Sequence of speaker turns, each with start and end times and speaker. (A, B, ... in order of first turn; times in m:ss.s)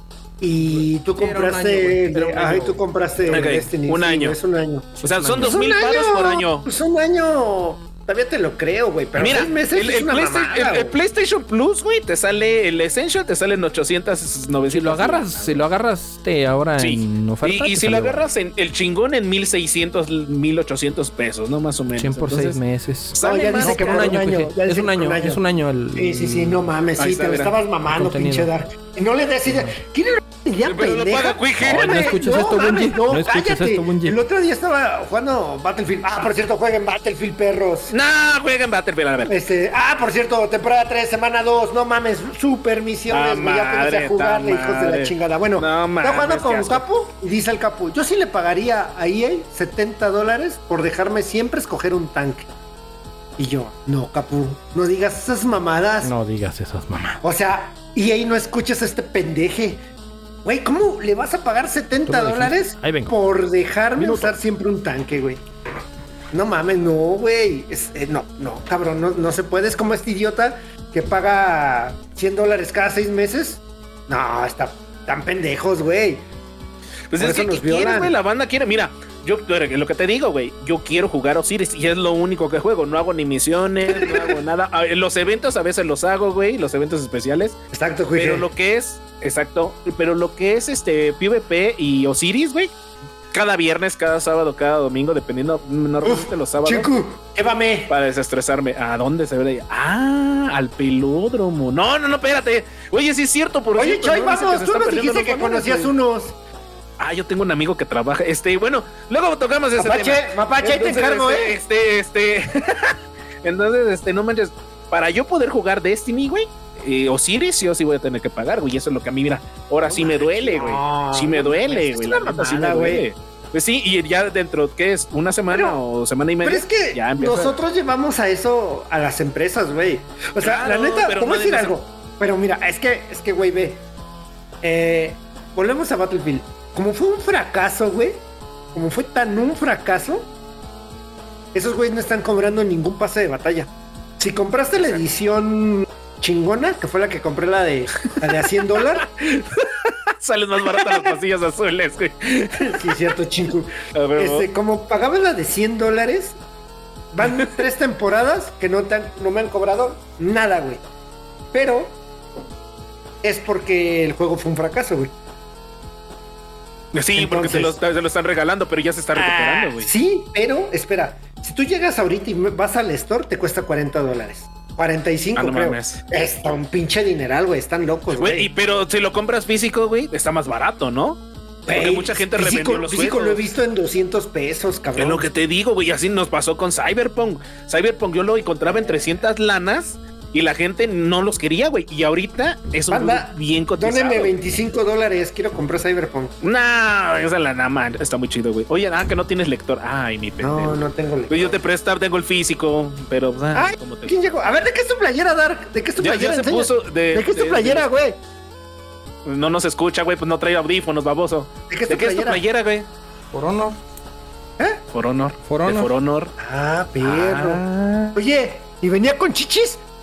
0:00.4-0:11.0 A
0:00.6-0:03.6 B
0:03.3-0:04.4 C
0:05.0-0:05.6 B
0:05.0-0:06.6 C
0:09.2-0:15.6 C
0:14.7-0:18.2 B
0:16.8-0:22.6 C
0:22.0-0:26.6 B
0:23.1-0:24.2 C
0:23.2-0:25.4 A
0:25.9-0:37.9 A
0:27.0-0:27.5 C
0:27.9-0:28.5 B
0:29.4-0:29.7 B
0:30.6-0:32.0 C
0:31.6-0:34.2 B
0:37.9-0:39.3 C
0:39.3-0:52.5 A
0:43.1-0:46.8 C
0:53.4-0:56.1 A
0:56.0-0:57.2 B
0:57.2-0:59.8 A
1:00.4-1:05.4 A
1:02.1-1:03.2 B
1:04.0-1:04.3 C
1:06.3-1:16.3 A
1:17.1-1:27.6 C
1:17.2-1:18.1 A
1:23.9-1:24.3 A
1:27.7-1:28.5 A
1:28.1-1:32.7 C
1:33.3-1:36.9 C
1:36.0-1:37.9 A
1:37.9-1:45.9 C
1:43.8-1:46.4 A
1:47.0-2:07.6 C
1:49.8-1:51.6 A
1:59.8-2:03.0 A
2:05.5-2:05.8 A
2:06.4-2:13.8 A
2:10.4-2:11.7 C
2:14.6-2:20.3 A
2:21.5-2:29.1 A
2:29.0-2:32.9 C
2:30.7-2:31.1 A
2:32.6-2:36.4 A
2:33.9-2:34.5 C
2:37.1-2:40.8 A
2:41.5-2:42.0 A
2:43.2-2:45.1 A
2:46.9-2:49.9 C
2:47.2-2:47.8 A
2:49.1-2:58.5 A
2:55.4-2:56.0 C
2:58.1-3:03.4 C
3:01.6-3:05.3 A
3:05.0-3:14.4 C
3:08.7-3:09.0 A
3:12.9-3:16.3 A
3:16.4-3:24.3 C
3:20.4-3:21.6 A
3:23.5-3:28.2 A
3:26.0-3:27.9 C
3:29.2-3:32.9 C
3:31.7-3:32.4 A
3:33.3-3:33.8 B
3:34.9-3:36.3 C
3:35.4-3:35.9 B
3:36.4-3:37.6 A
3:37.0-3:38.2 C
3:38.1-3:39.8 A